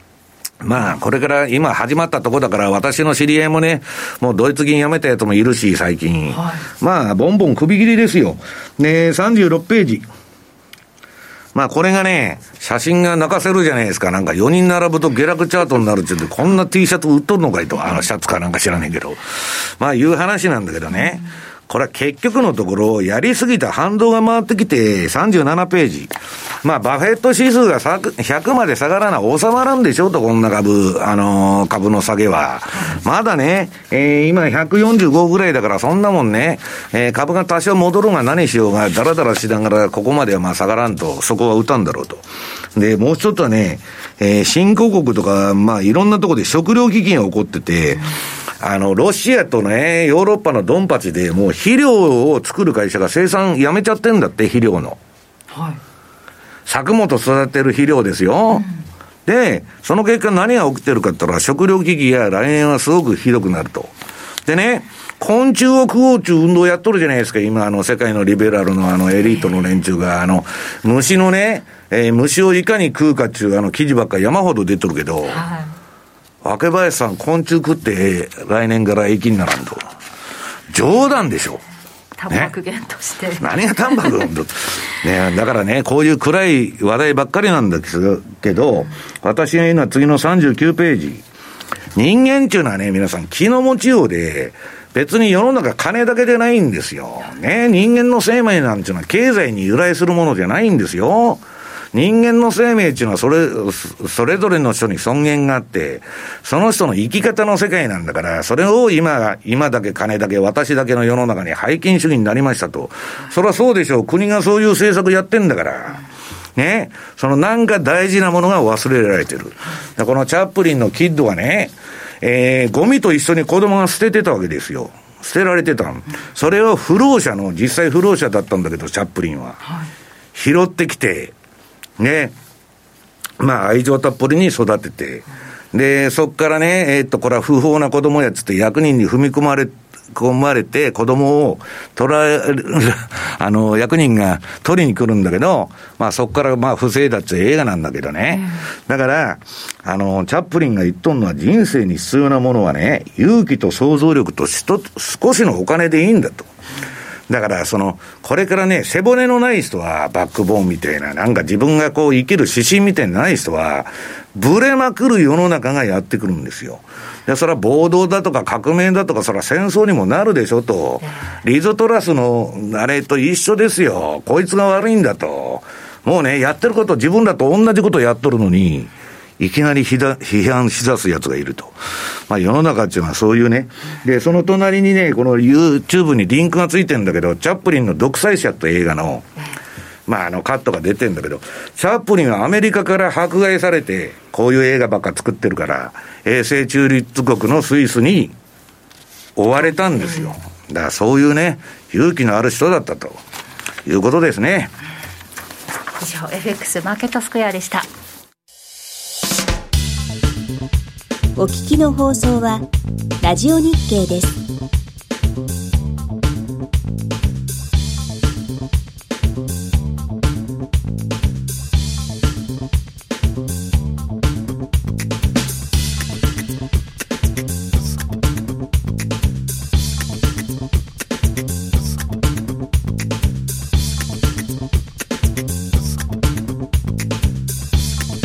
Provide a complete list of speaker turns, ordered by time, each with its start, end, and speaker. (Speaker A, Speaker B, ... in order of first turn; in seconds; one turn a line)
Speaker A: 0.6-10.1
Speaker B: 6.3-6.6
Speaker A: 11.5-42.2
Speaker A: 42.7-55.0
Speaker B: 55.5-55.8
Speaker A: 56.6-58.7
Speaker A: 59.2-63.9
Speaker A: 64.5-75.4
Speaker B: 75.3-75.7
Speaker A: 76.4-79.9
Speaker A: 80.7-81.6
Speaker B: 82.2-84.0
Speaker A: 83.4-91.2
Speaker A: 91.9-101.4
Speaker A: 101.9-116.0
Speaker A: 116.5-129.7
Speaker A: 130.3-131.3
Speaker A: 132.0-132.3
Speaker A: 133.4-156.5
Speaker A: 157.3-189.3
Speaker A: 190.1-198.3
Speaker A: 199.3-203.2
Speaker A: 203.8-204.7
Speaker B: 206.0-207.9
Speaker C: 211.4-212.6
Speaker C: 213.2-214.4